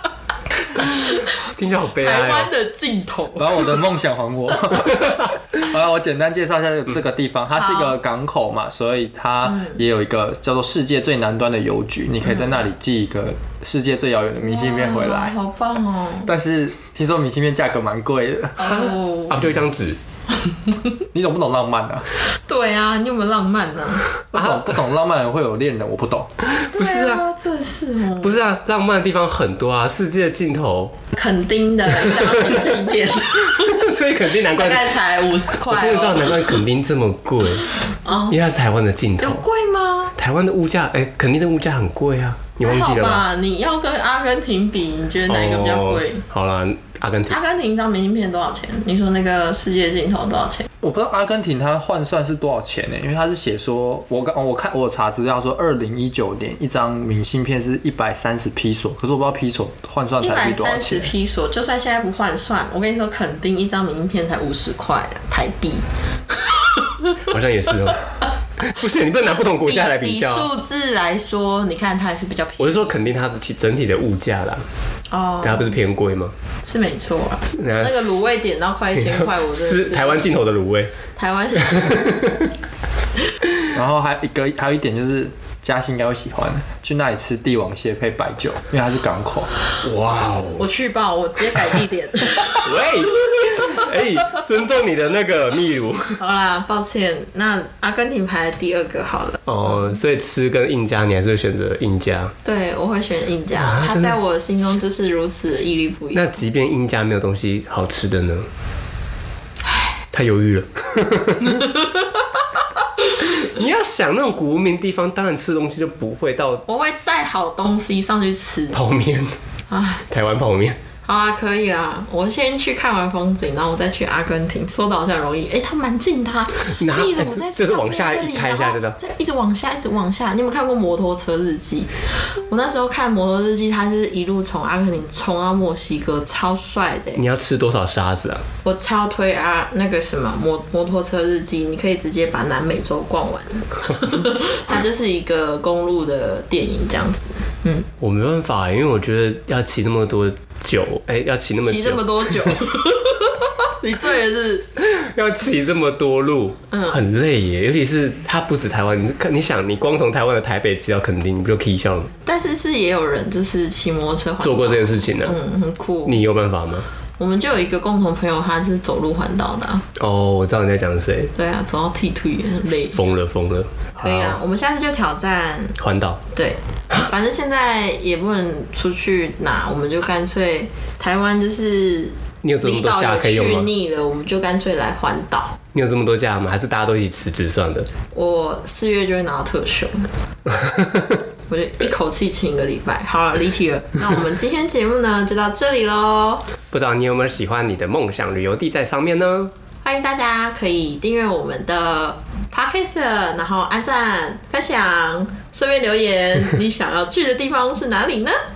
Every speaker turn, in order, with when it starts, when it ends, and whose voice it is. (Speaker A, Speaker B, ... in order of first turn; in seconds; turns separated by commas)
Speaker A: 0.7-1.4, Speaker B: 1.0-2.5, Speaker A: 2.0-3.8, Speaker C: 3.4-15.4, Speaker A: 7.5-7.9, Speaker A: 12.3-12.6, Speaker A: 14.4-16.3, Speaker C: 16.2-18.9, Speaker A: 18.6-19.4, Speaker B: 19.3-20.0, Speaker C: 21.1-22.1, Speaker A: 22.5-24.1, Speaker C: 24.3-26.3, Speaker B: 24.3-24.6, Speaker B: 26.6-27.2, Speaker A: 26.6-28.4, Speaker B: 28.2-30.9, Speaker A: 31.1-33.9, Speaker B: 31.9-32.9, Speaker B: 33.4-35.0, Speaker A: 34.5-36.6, Speaker B: 35.5-37.7, Speaker A: 38.0-38.4, Speaker B: 38.3-39.5, Speaker A: 39.2-40.1, Speaker B: 40.2-43.2, Speaker A: 42.6-46.2, Speaker B: 45.3-47.4, Speaker A: 47.3-50.7, Speaker C: 50.8-61.1, Speaker A: 60.2-65.9, Speaker B: 67.2-68.0, Speaker B: 68.6-70.5, Speaker A: 69.3-72.9, Speaker B: 72.6-74.7, Speaker A: 75.1-75.8, Speaker B: 75.4-76.3, Speaker A: 76.6-80.3, Speaker B: 77.5-78.2, Speaker B: 79.0-81.0, Speaker A: 81.2-82.1, Speaker B: 81.6-82.5, Speaker C: 83.7-89.5, Speaker B: 89.8-90.7, Speaker A: 90.6-92.7, Speaker B: 92.6-96.2, Speaker A: 93.5-93.8, Speaker A: 96.2-100.0, Speaker B: 99.5-102.3, Speaker A: 102.4-106.3, Speaker B: 103.6-104.2, Speaker B: 106.1-108.5, Speaker A: 109.7-109.9, Speaker B: 110.1-111.7, Speaker A: 111.5-112.4, Speaker A: 113.0-113.3, Speaker B: 113.4-116.6, Speaker A: 116.7-118.8, Speaker B: 118.7-119.4, Speaker A: 119.7-120.1, Speaker B: 120.1-120.8, Speaker A: 121.0-137.2, Speaker B: 126.7-129.0, Speaker B: 137.2-138.4, Speaker A: 138.6-147.9, Speaker B: 148.0-152.6, Speaker A: 151.6-154.7, Speaker B: 154.8-162.1, Speaker A: 156.7-157.0, Speaker A: 162.2-166.2, Speaker B: 164.4-165.4, Speaker B: 166.1-166.9, Speaker A: 167.2-169.9, Speaker B: 170.0-171.3, Speaker A: 171.4-173.0, Speaker B: 172.9-174.4, Speaker A: 174.0-175.8, Speaker B: 175.8-176.2, Speaker A: 176.3-185.6, Speaker B: 182.4-183.7, Speaker B: 185.7-187.9, Speaker A: 188.1-190.1, Speaker B: 190.5-191.2, Speaker A: 191.5-196.4, Speaker B: 196.7-199.5, Speaker A: 199.8-208.4